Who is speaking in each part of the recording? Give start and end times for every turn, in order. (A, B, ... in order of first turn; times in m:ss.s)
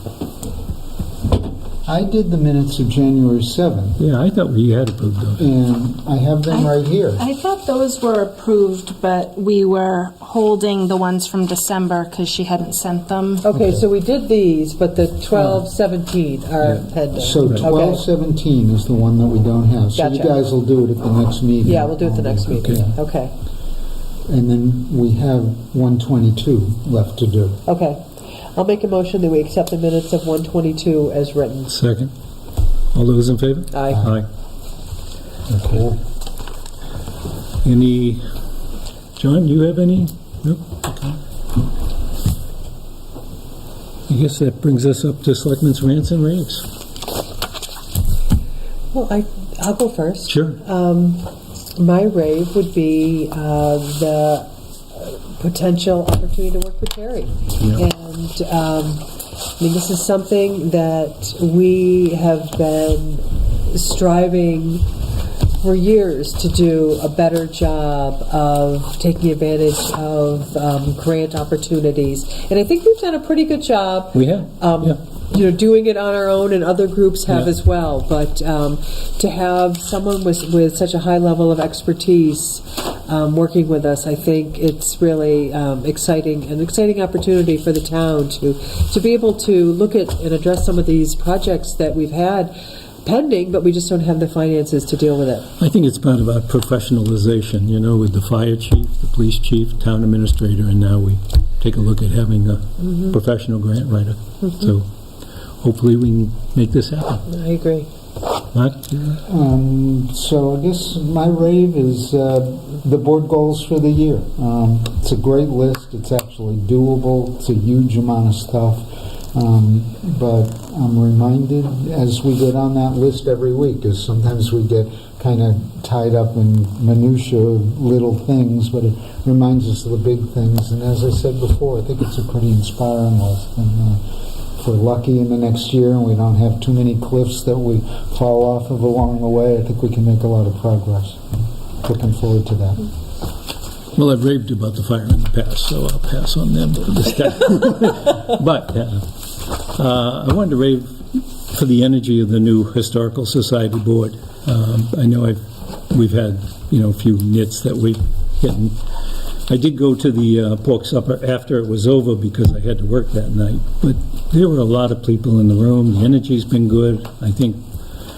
0:01.8-0:04.0 A
0:04.0-0:05.5 B
0:05.4-0:07.2 A
0:06.5-0:13.4 C
0:13.4-0:18.0 D
0:15.3-0:15.6 A
0:17.1-0:23.0 A
0:19.9-0:20.3 D
0:21.6-0:23.3 D
0:24.3-0:27.6 A
0:27.6-0:28.0 D
0:28.5-0:31.7 D
0:31.7-0:32.1 B
0:32.9-0:34.2 B
0:33.7-0:34.0 D
0:33.9-0:34.2 A
0:35.5-0:36.0 A
0:37.6-0:38.2 B
0:39.2-0:41.2 B
0:44.1-0:46.7 B
0:48.9-0:59.0 D
0:50.3-0:50.6 B
0:59.6-1:04.8 D
1:05.6-1:35.5 D
1:14.1-1:15.0 B
1:35.6-1:44.9 B
1:45.6-1:47.2 B
1:47.3-1:47.9 D
1:48.5-1:49.2 B
1:49.2-2:14.0 A
2:14.6-2:21.2 A
2:21.8-2:22.8 A
2:23.9-2:38.8 B
2:39.5-2:47.6 B